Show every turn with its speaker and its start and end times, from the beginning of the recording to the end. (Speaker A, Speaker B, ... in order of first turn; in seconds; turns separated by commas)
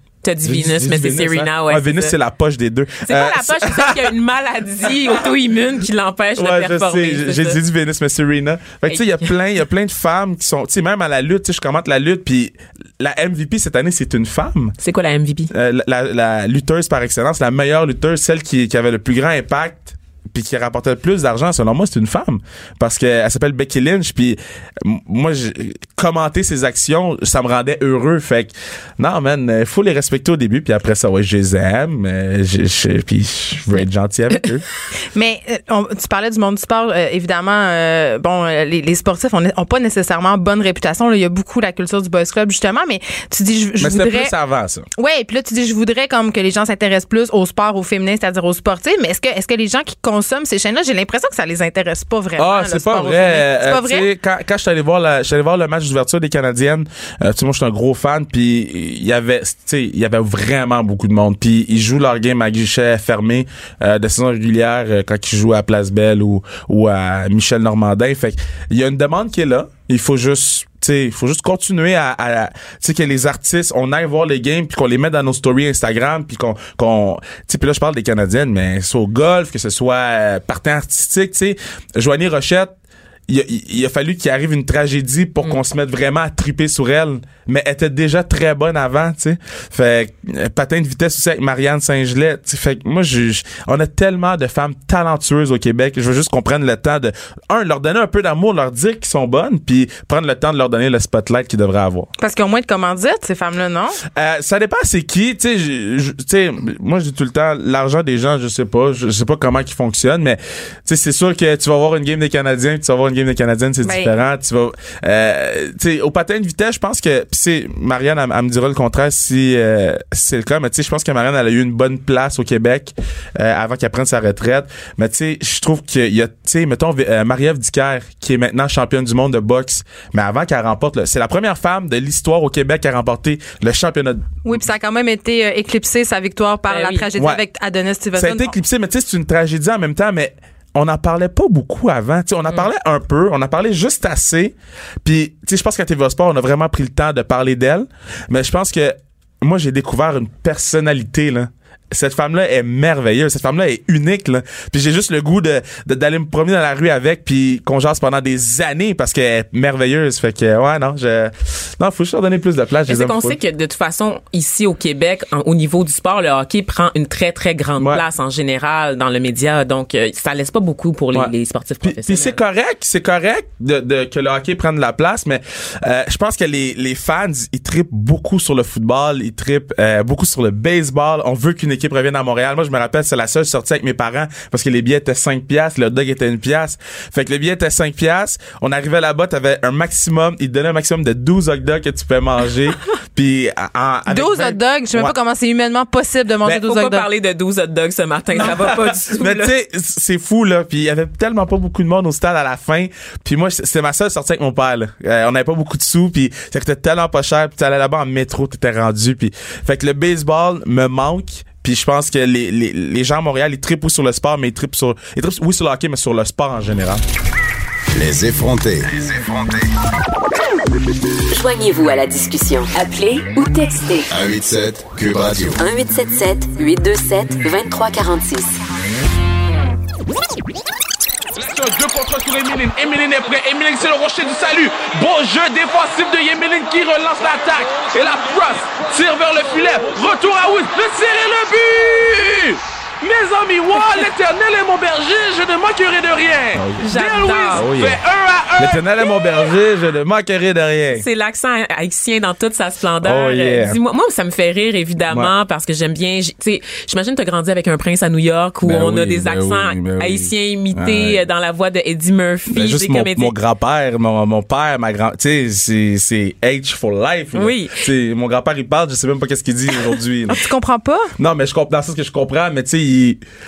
Speaker A: 0.2-2.1, Speaker B: 0.4-4.1, Speaker A: 3.0-7.6, Speaker B: 6.3-14.8, Speaker A: 8.9-9.3, Speaker A: 14.8-15.5, Speaker B: 15.5-34.6, Speaker C: 35.1-44.3, Speaker B: 43.8-44.9, Speaker C: 45.0-54.1, Speaker B: 52.4-82.7, Speaker B: 83.3-102.1, Speaker C: 102.2-104.0, Speaker B: 104.0-134.4, Speaker C: 113.8-114.1, Speaker C: 134.4-138.5, Speaker A: 136.7-137.0, Speaker B: 138.1-163.4, Speaker A: 162.9-172.4, Speaker B: 171.1-195.1, Speaker C: 194.1-197.1, Speaker A: 196.6-199.5, Speaker B: 198.3-217.0, Speaker D: 217.9-219.7, Speaker E: 221.3-224.1, Speaker D: 224.1-225.6, Speaker E: 225.6-228.6, Speaker F: 231.3-249.4, Speaker B: 246.5-246.9, Speaker A: 246.8-247.7, Speaker B: 247.5-248.0, Speaker B: 248.6-251.1, Speaker A: 250.9-263.3, Speaker B: 253.0-253.8, Speaker B: 258.6-261.2, Speaker B: 262.5-270.5, Speaker A: 267.3-267.9, Speaker C: 270.3-271.1, Speaker B: 271.2-273.2